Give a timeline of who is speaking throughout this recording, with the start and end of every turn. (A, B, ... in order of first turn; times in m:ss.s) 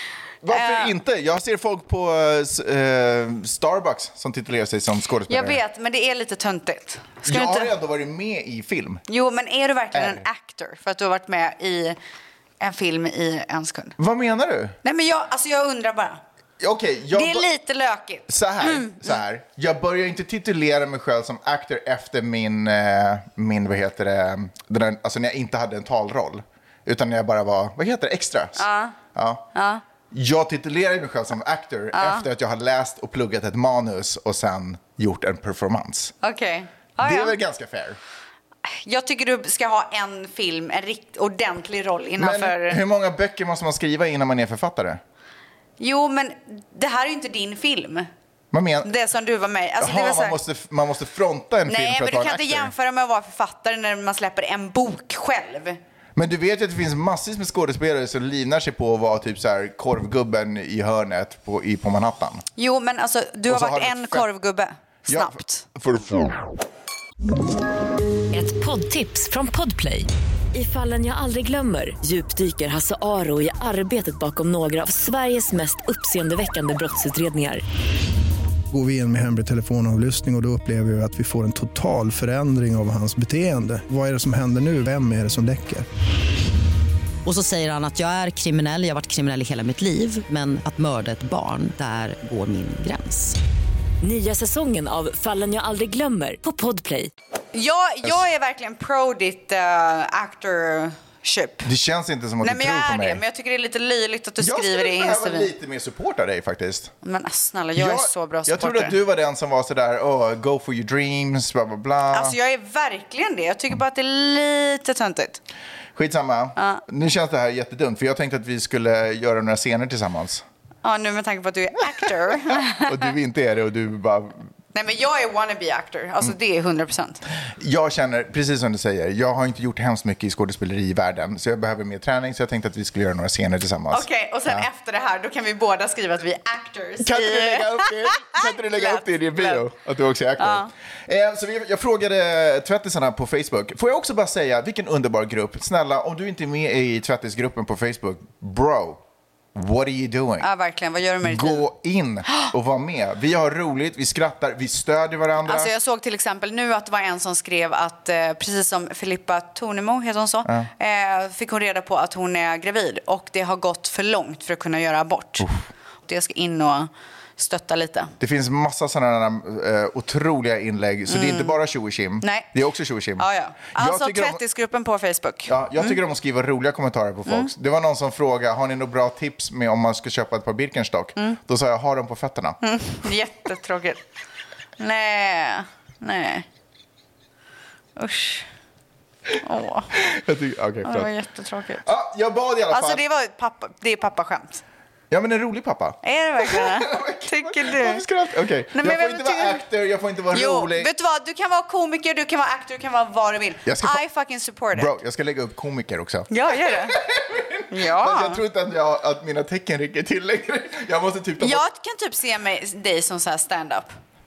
0:00.4-0:05.6 A
0:00.5-0:00.9 B
0:05.3-0:07.7 B
0:07.2-0:09.0 A
0:09.1-0:12.0 B
0:09.9-0:10.2 A
0:12.6-0:14.0 B
0:14.0-0:14.8 A
0:14.8-0:16.2 B
0:16.6-0:17.5 A
0:17.1-0:19.0 B
0:18.3-0:29.4 A
0:28.6-0:29.0 B
0:29.5-0:29.8 B
0:30.1-0:36.1 A
0:31.9-0:32.2 B
0:36.2-0:37.4 B
0:37.0-0:38.0 A
0:38.7-0:42.8 B
0:42.2-0:45.0 A
0:45.8-0:48.1 B
0:48.5-0:48.9 A
0:48.8-0:50.4 B
0:49.8-0:52.7 A
0:51.7-0:55.8 B
0:56.2-1:02.4 A
1:02.6-1:05.6 B
1:03.5-1:04.2 A
1:05.1-1:06.3 A
1:08.3-1:17.6 C
1:18.7-1:25.9 D
1:27.2-1:33.4 E
1:34.0-1:37.1 C
1:37.5-1:41.7 B
1:41.6-1:43.2 A
1:42.4-1:45.5 B
1:44.4-1:46.9 A
1:47.0-1:49.0 B
1:47.7-1:52.4 A
1:52.1-1:55.4 B
1:55.9-2:00.4 A
1:56.6-1:56.8 B
2:00.8-2:03.1 B
2:02.1-2:04.5 A
2:04.7-2:07.2 B
2:07.5-2:14.6 A
2:13.9-2:19.7 B
2:17.0-2:29.0 A
2:20.4-2:20.7 B
2:29.5-2:30.5 A
2:30.4-2:31.7 B
2:31.2-2:35.7 A
2:35.4-2:45.5 B
2:40.4-2:40.7 A
2:45.4-2:45.6 A
2:46.0-2:48.1 B
2:48.2-2:54.4 A
2:51.1-2:51.6 B
2:52.2-2:52.5 B
2:53.2-2:56.0 B
2:55.5-3:02.6 A
3:02.6-3:04.0 B
3:04.8-3:06.4 B
3:08.0-3:08.5 B
3:09.4-3:09.9 B
3:09.9-3:11.1 A
3:10.8-3:11.8 B
3:11.8-3:13.0 A
3:12.7-3:14.6 B
3:15.1-3:20.9 A
3:16.0-3:18.0 B
3:18.7-3:19.6 B
3:20.3-3:24.9 B
3:23.6-3:24.0 A
3:24.7-3:31.6 A
3:26.3-3:27.0 B
3:27.7-3:28.4 B
3:31.4-3:34.0 B